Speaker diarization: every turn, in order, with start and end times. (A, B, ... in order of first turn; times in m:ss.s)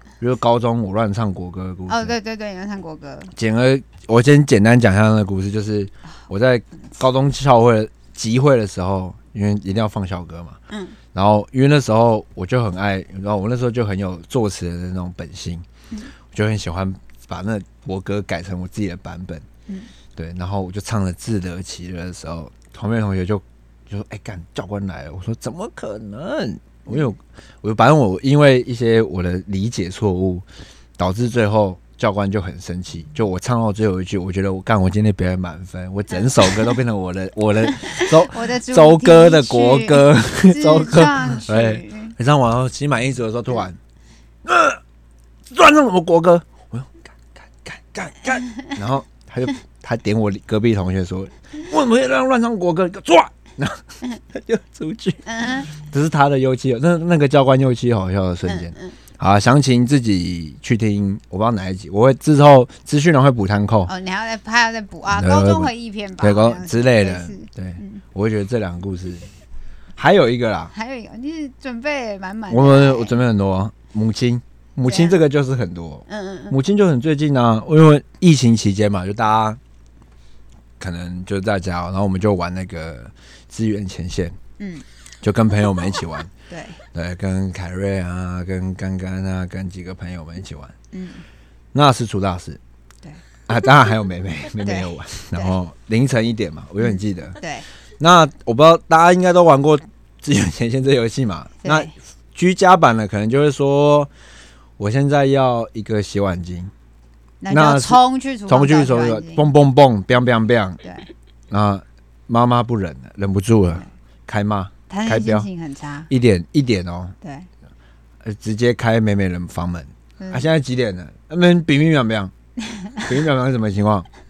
0:00.2-0:02.1 A
0:01.9-0:03.3 B
0:03.4-0:10.6 A
0:10.7-0:11.0 B
0:11.1-0:15.7 A
0:16.3-0:19.5 A
0:20.2-0:30.5 A
0:31.0-0:43.8 A
0:36.1-0:36.7 B
0:37.7-0:42.1 B
0:44.4-0:44.8 A
0:45.5-1:03.9 A
0:55.3-0:55.7 B
0:58.5-0:59.0 B
1:03.9-1:08.0 B
1:05.1-1:09.3 A
1:10.0-1:10.7 A
1:10.7-1:13.2 B
1:12.5-1:19.6 A
1:14.9-1:15.2 B
1:16.1-1:16.6 B
1:20.8-1:24.4 A
1:24.6-1:24.8 B
1:25.2-1:26.3 A
1:26.5-1:26.8 B
1:26.9-1:30.8 A
1:30.9-1:31.2 B
1:31.7-1:32.6 A
1:33.5-1:37.4 A
1:34.6-1:35.6 B
1:37.4-1:37.7 B
1:38.0-1:44.1 A
1:41.6-1:41.9 B
1:44.8-1:46.7 A
1:47.4-1:49.5 B
1:47.5-1:50.8 A
1:50.8-1:51.1 B
1:51.5-1:55.5 A
1:54.9-1:56.1 B
1:56.1-1:57.2 A
1:57.2-1:57.5 B
1:58.2-2:02.3 A
2:00.2-2:00.5 B
2:02.7-2:03.0 B
2:03.0-2:04.1 A